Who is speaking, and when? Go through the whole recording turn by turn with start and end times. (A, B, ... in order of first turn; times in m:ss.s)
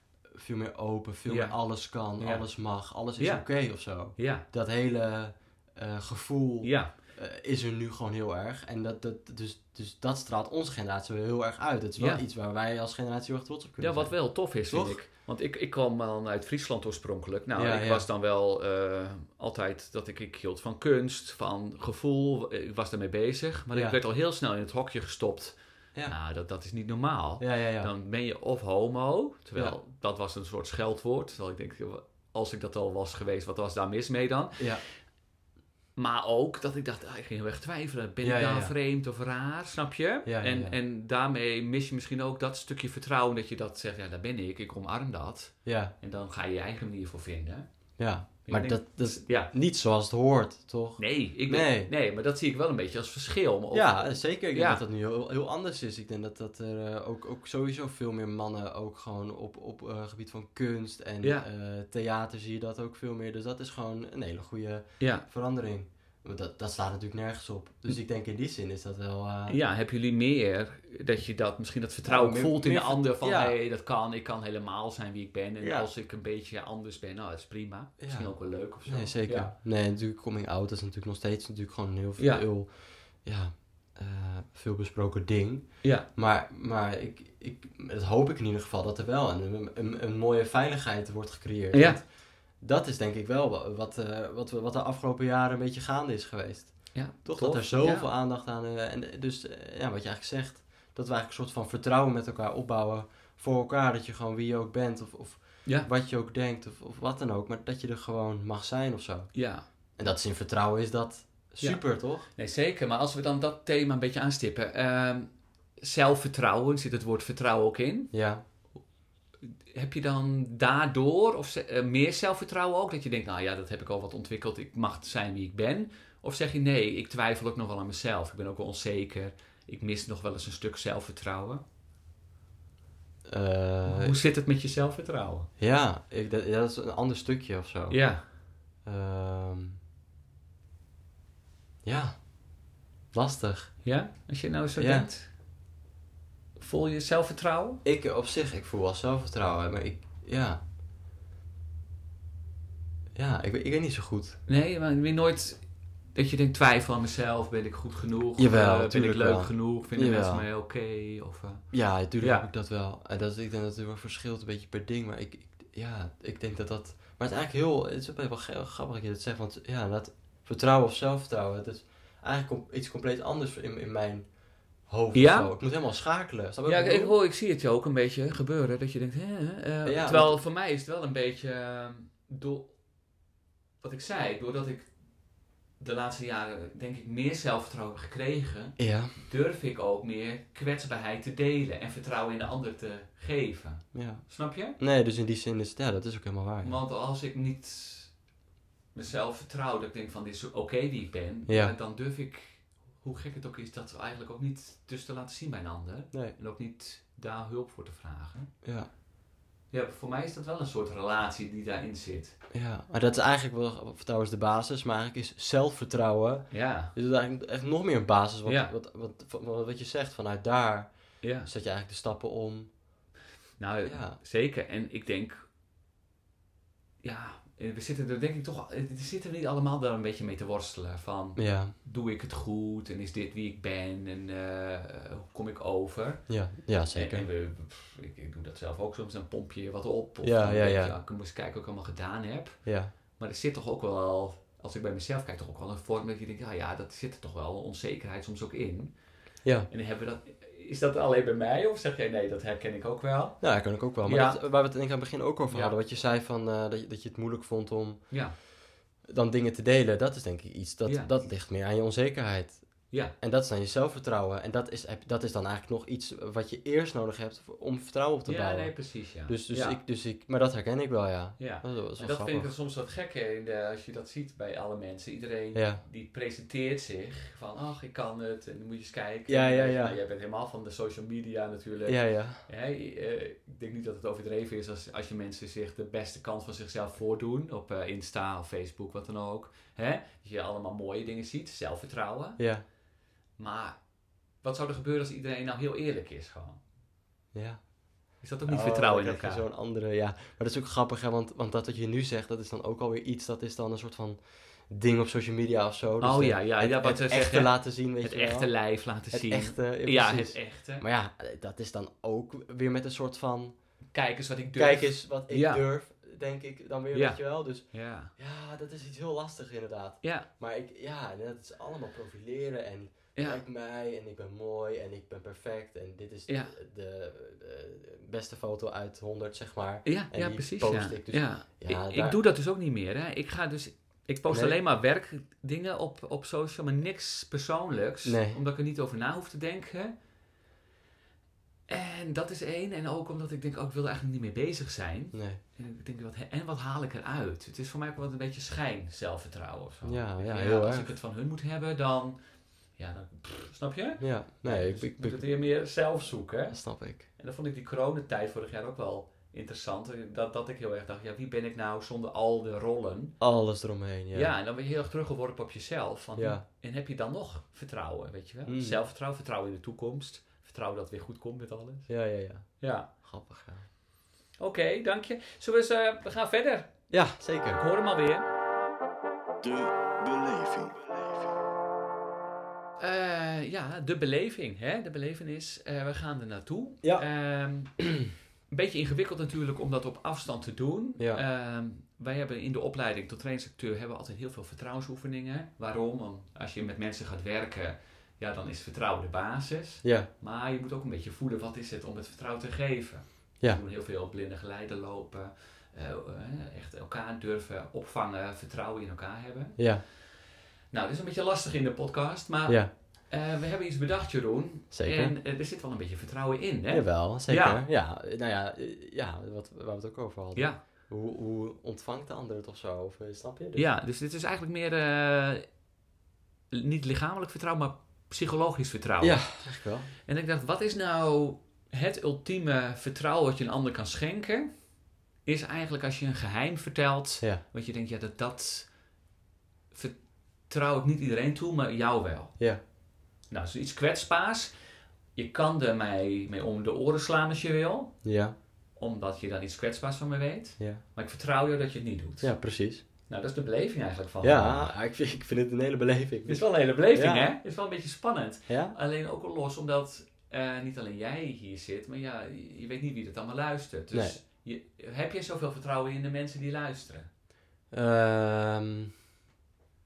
0:00.3-0:15.0 A
0:01.3-0:01.6 B
0:02.2-0:02.5 B
0:03.2-0:03.5 B
0:04.2-0:04.5 B
0:06.6-0:07.0 B
0:13.8-0:34.9 B
0:17.6-0:18.0 A
0:23.7-0:24.0 A
0:27.4-0:27.9 A
0:34.6-0:34.8 A
0:36.0-0:47.7 B
0:38.2-0:38.7 A
0:40.2-0:40.8 A
0:45.6-0:45.9 A
0:48.0-0:51.9 A
0:48.5-0:49.5 B
0:51.0-0:54.8 B
0:53.7-1:09.6 A
1:05.0-1:05.2 B
1:09.5-1:19.5 B
1:12.0-1:13.6 A
1:15.6-1:15.9 A
1:18.0-1:32.1 A
1:22.2-1:22.5 B
1:31.7-1:32.0 B
1:32.6-1:49.3 A
1:36.9-1:38.1 B
1:49.3-1:49.7 B
1:50.0-1:52.3 A
1:51.6-1:58.1 B
1:58.1-1:58.4 A
1:59.4-2:11.6 B
2:13.3-2:14.2 A
2:13.8-2:15.5 B
2:15.6-2:18.1 A
2:17.9-2:18.3 B
2:18.8-2:19.8 A
2:21.8-2:22.3 A
2:23.1-2:23.8 A
2:23.8-2:25.3 B
2:24.8-2:25.1 A
2:26.6-2:27.8 B
2:27.8-2:30.6 A
2:33.2-2:34.4 A
2:34.5-2:42.5 B
2:38.4-2:40.5 A
2:41.7-2:54.3 A
2:54.9-2:57.2 A
2:55.1-2:55.5 B
2:56.7-3:02.7 B
2:59.8-3:00.4 A
3:03.8-3:04.9 B
3:05.8-3:14.8 B
3:08.8-3:09.2 A
3:13.9-3:16.8 A
3:16.6-3:18.2 B
3:18.9-3:28.5 B
3:21.5-3:21.8 A
3:28.6-3:28.9 A
3:29.7-3:32.4 B
3:32.5-3:40.9 A
3:36.5-3:36.9 B
3:38.5-3:38.7 B
3:41.2-3:41.5 B
3:41.4-3:42.7 A
3:43.6-3:45.4 B
3:43.8-3:44.2 A
3:47.0-3:56.4 B
3:51.4-3:51.7 A
3:56.3-3:57.3 A
3:56.9-4:09.0 B
4:00.2-4:00.9 A
4:02.7-4:02.9 A
4:09.4-4:09.7 A
4:09.7-4:13.4 B
4:13.4-4:18.1 A
4:14.0-4:14.4 B
4:15.5-4:15.8 B
4:18.1-4:18.4 B
4:19.1-4:32.5 A
4:20.8-4:21.3 B
4:28.3-4:29.8 B
4:31.4-4:52.4 B
4:35.5-4:35.8 A
4:39.3-4:40.0 A
4:41.9-4:42.4 A
4:52.4-4:52.6 A
4:53.4-4:53.8 B
4:54.4-4:56.6 B
4:57.3-4:57.7 A
4:58.2-4:59.4 B
4:58.4-5:13.6 A
5:06.0-5:10.8 B
5:13.9-5:15.6 B
5:14.6-5:32.2 A
5:16.9-5:18.1 B
5:20.0-5:20.3 B
5:23.2-5:23.4 B
5:26.3-5:26.6 B
5:29.8-5:40.0 B
5:34.3-5:34.6 A
5:38.0-5:38.4 A
5:41.7-5:52.2 B
5:45.1-5:45.4 A
5:49.8-5:51.0 A
5:52.8-5:56.6 B
5:54.0-5:55.3 A
5:56.5-5:57.1 A
5:57.2-6:03.2 B
6:03.2-6:04.3 A
6:04.1-6:11.9 B
6:06.2-6:06.4 A
6:08.5-6:08.8 A
6:11.9-6:13.7 A
6:12.6-6:12.9 B
6:14.4-6:16.9 B
6:16.9-6:17.6 A
6:17.6-6:18.3 B
6:19.4-6:21.4 C
6:22.8-6:27.9 B
6:28.5-6:50.1 B
6:31.0-6:31.2 A
6:39.8-6:40.1 A
6:49.6-6:49.8 A
6:50.7-6:57.6 B
6:52.5-6:52.7 A
6:54.7-6:55.2 A
6:56.7-7:03.7 A
7:00.4-7:00.6 B
7:03.6-7:05.5 B
7:06.5-7:09.4 B
7:09.0-7:09.9 A
7:10.0-7:14.5 B
7:15.2-7:18.7 B
7:19.7-7:22.4 B
7:23.3-7:24.5 B
7:25.2-7:28.0 B
7:28.0-7:28.4 A
7:28.8-7:32.3 B
7:32.2-7:32.8 A
7:33.1-7:34.7 B
7:34.2-7:37.3 A
7:36.3-7:47.1 B
7:38.5-7:38.8 A
7:43.9-7:44.2 A
7:47.7-7:48.9 A